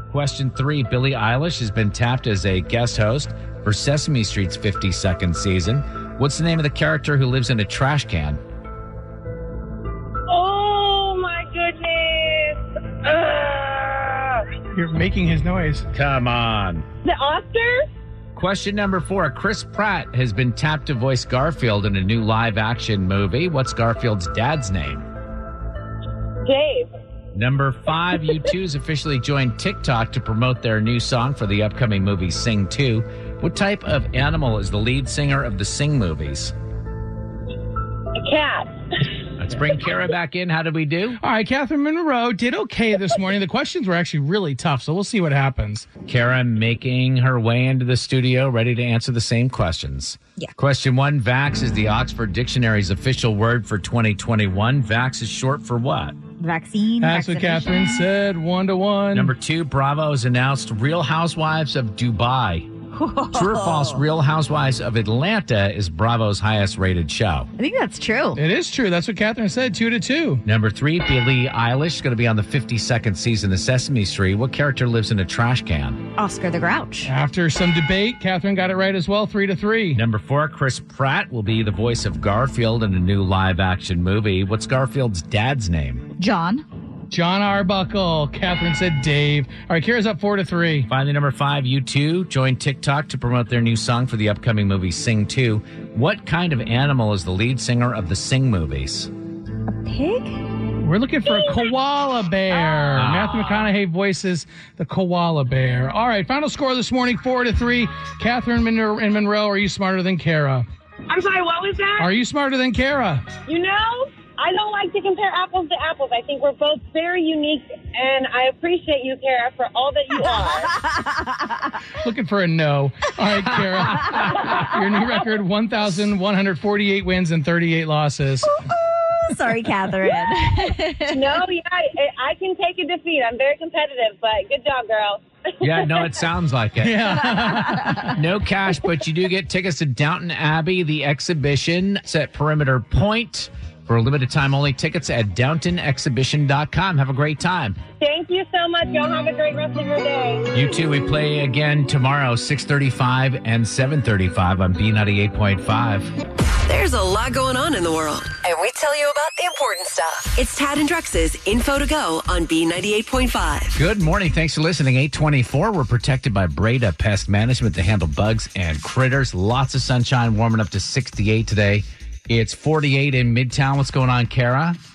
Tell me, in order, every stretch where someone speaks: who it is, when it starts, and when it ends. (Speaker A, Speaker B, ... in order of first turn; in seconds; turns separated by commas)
Speaker A: 0.1-8.4, Speaker B: 10.3-14.4, Speaker C: 14.7-15.8, Speaker A: 15.9-16.9, Speaker B: 17.0-17.9, Speaker A: 18.4-25.1, Speaker B: 26.4-26.9, Speaker A: 27.3-36.5, Speaker B: 38.1-39.0, Speaker A: 39.4-41.2, Speaker C: 41.2-45.9, Speaker A: 46.1-56.2, Speaker D: 56.4-58.1, Speaker C: 57.0-59.3, Speaker A: 59.1-62.7, Speaker D: 62.9-64.0, Speaker A: 63.3-67.5, Speaker D: 67.6-68.4, Speaker C: 68.4-70.4, Speaker A: 70.5-76.0, Speaker D: 76.2-77.1, Speaker C: 77.0-80.0, Speaker A: 79.9-86.1, Speaker D: 86.2-86.7, Speaker C: 87.1-90.9, Speaker A: 90.9-99.1, Speaker D: 99.7-100.5, Speaker C: 100.8-110.7, Speaker B: 101.2-101.7, Speaker B: 102.5-103.0, Speaker A: 103.0-103.7, Speaker B: 111.1-112.1, Speaker C: 112.0-113.3, Speaker B: 113.5-120.8, Speaker D: 120.8-121.6, Speaker C: 122.0-128.5, Speaker D: 128.7-131.4, Speaker B: 131.1-136.1, Speaker A: 135.6-147.8, Speaker C: 136.8-138.0, Speaker B: 148.0-150.5, Speaker A: 150.5-156.1, Speaker E: 156.6-163.8, Speaker A: 163.8-174.8